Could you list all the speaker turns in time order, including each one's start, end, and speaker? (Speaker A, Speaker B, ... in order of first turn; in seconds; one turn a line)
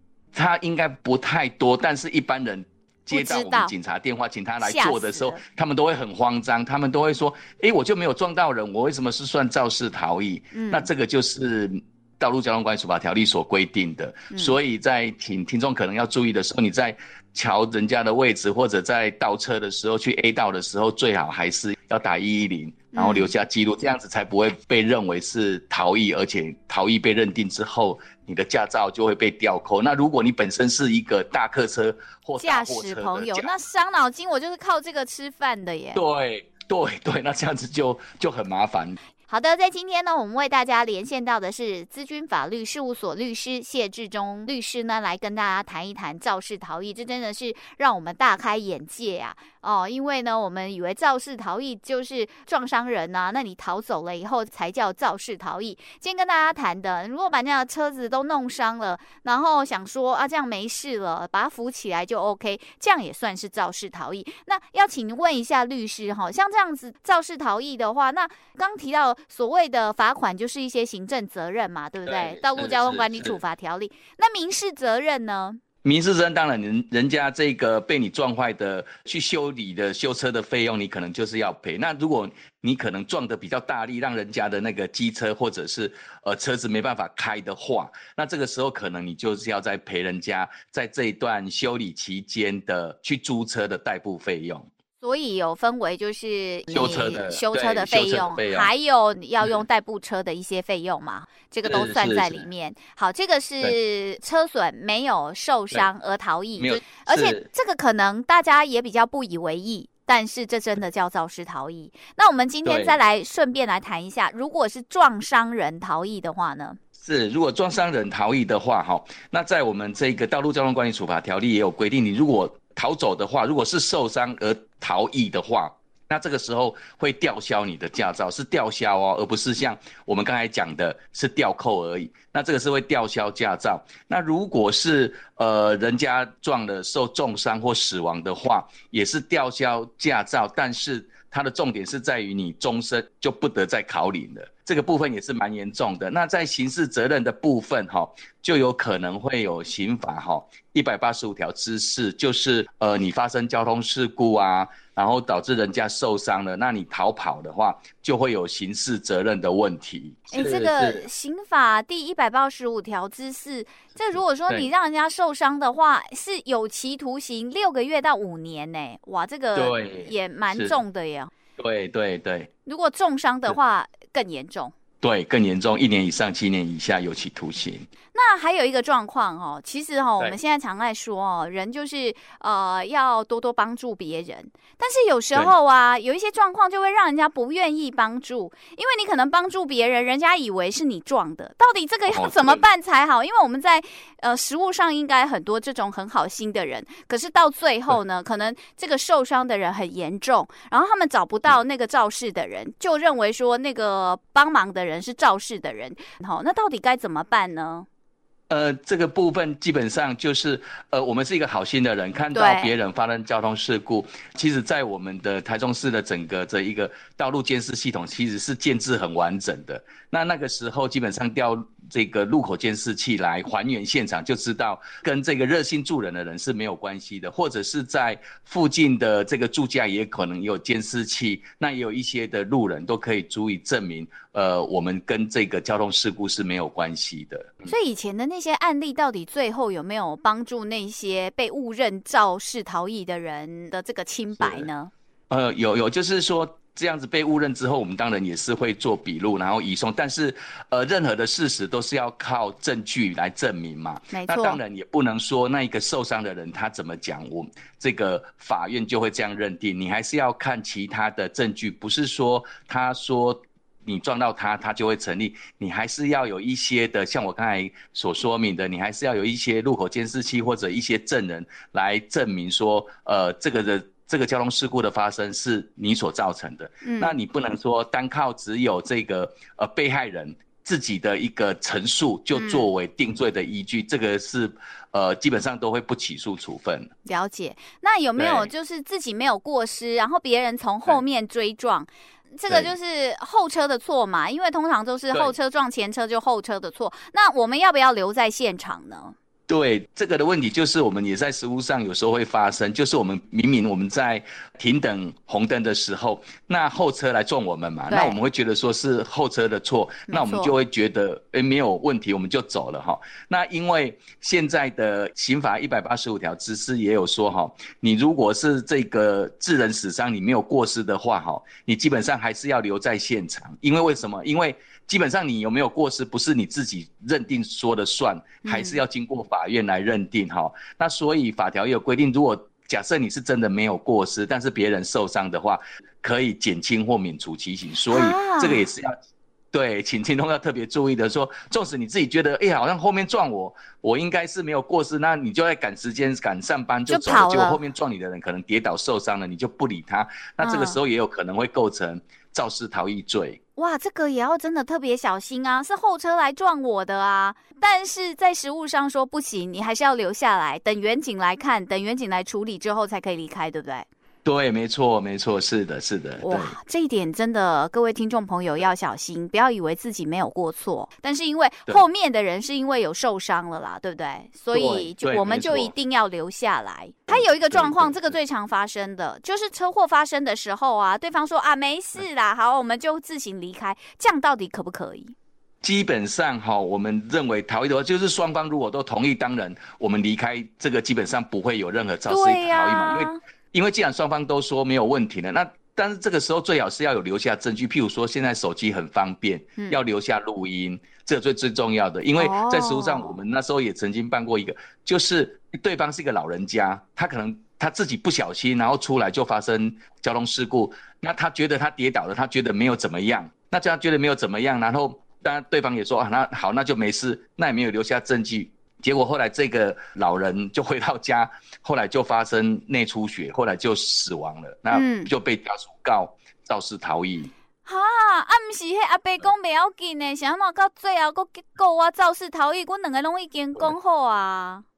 Speaker A: 0.3-33.5
Speaker B: 3.1-3.7
Speaker B: 4.6-5.4
Speaker B: 10.5-10.9
Speaker B: 14.3-14.6
Speaker B: 22.9-23.3
Speaker B: 32.4-36.0
Speaker A: 35.9-39.0
Speaker B: 39.3-75.6
Speaker A: 72.0-73.4
Speaker A: 75.8-94.7
Speaker B: 95.0-116.8
Speaker A: 96.7-98.7
Speaker A: 101.6-102.5
Speaker A: 106.6-107.5
Speaker A: 112.6-113.0
Speaker A: 117.0-161.1
Speaker B: 160.3-171.3
Speaker A: 164.1-164.7
Speaker A: 169.5-170.8
Speaker A: 171.6-172.5
Speaker B: 172.7-174.7
Speaker A: 175.0-177.9
Speaker B: 178.1-207.9
Speaker A: 192.1-192.6
Speaker A: 208.5-237.7
Speaker B: 212.3-212.7
Speaker B: 237.7-244.9
Speaker A: 244.4-244.7
Speaker A: 245.3-286.9
Speaker B: 254.1-254.6
Speaker B: 276.8-277.1
Speaker B: 282.3-282.7
Speaker B: 287.1-299.1
Speaker A: 288.2-288.5
Speaker A: 292.5-292.7
Speaker A: 299.5-338.9
Speaker B: 307.9-308.1
Speaker B: 310.1-310.5
Speaker B: 328.4-328.8
Speaker B: 337.9-338.6
Speaker A: 339.5-353.4
Speaker B: 346.9-347.6
Speaker B: 350.4-350.8
Speaker B: 353.6-363.9
Speaker A: 364.2-366.6
Speaker B: 366.2-385.1
Speaker A: 374.5-375.7
Speaker A: 377.1-378.1
Speaker A: 385.6-427.3
Speaker B: 392.1-393.2
Speaker B: 402.2-403.2
Speaker B: 424.7-425.1
Speaker B: 427.6-434.6